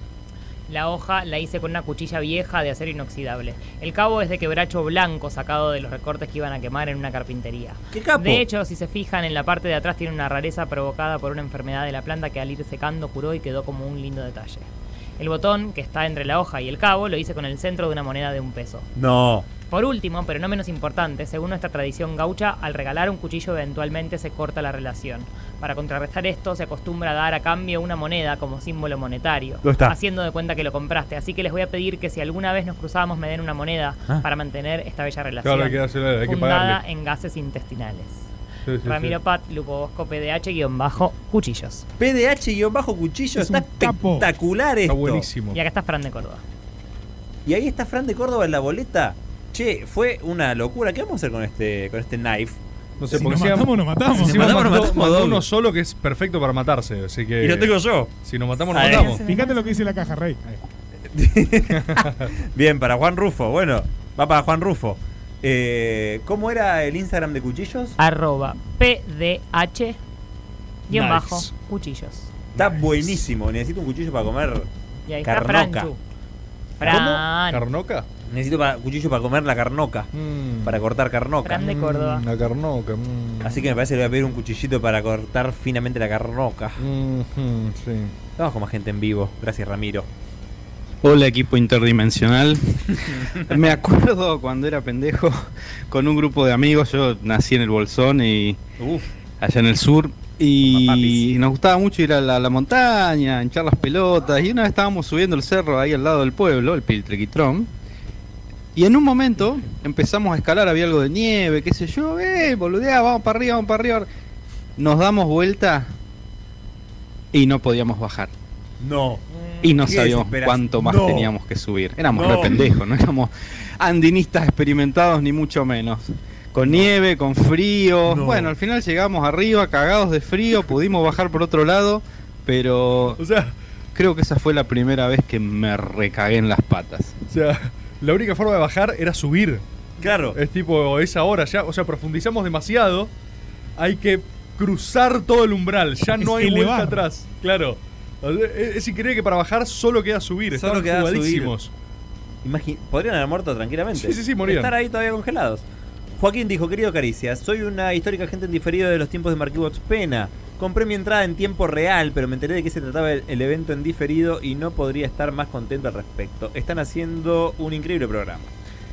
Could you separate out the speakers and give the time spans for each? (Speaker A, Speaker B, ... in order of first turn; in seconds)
Speaker A: 0.7-14.7, 15.2-18.9, 19.7-38.3, 38.8-41.8, 45.5-46.4, 68.0-70.0, 70.9-72.3, 75.1-76.0, 76.8-77.6, 81.4-82.2
Speaker B: 7.9-8.4, 18.9-19.5, 29.6-29.9, 42.0-45.2, 47.4-52.6, 54.2-55.4, 57.4-58.1, 58.7-59.2, 61.1-68.0, 72.5-74.7, 75.2-75.9, 78.3-80.1, 80.6-81.6, 83.4-86.8, 88.3-90.1, 93.1-93.8, 98.8-99.1, 100.7-101.3, 118.8-121.3, 122.1-122.7, 126.6-126.9, 128.0-128.5, 140.0-140.4, 150.5-151.5, 152.4-155.6, 156.2-168.5
Speaker C: 35.4-36.8, 38.6-39.1, 44.9-45.6, 53.0-59.2, 61.7-62.3, 70.9-71.5, 72.5-73.2, 76.8-78.0, 80.1-80.8, 81.6-83.8, 86.8-88.1, 133.2-133.5, 137.3-139.6, 140.3-143.1, 143.8-151.7, 153.9-154.7
Speaker D: 43.4-44.3, 53.1-54.8, 59.2-60.4, 146.2-147.0
Speaker E: 91.0-92.8, 93.5-95.3, 95.9-98.6, 99.4-107.7, 108.7-114.0, 114.8-115.9, 117.3-118.3, 119.6-133.2, 133.9-137.2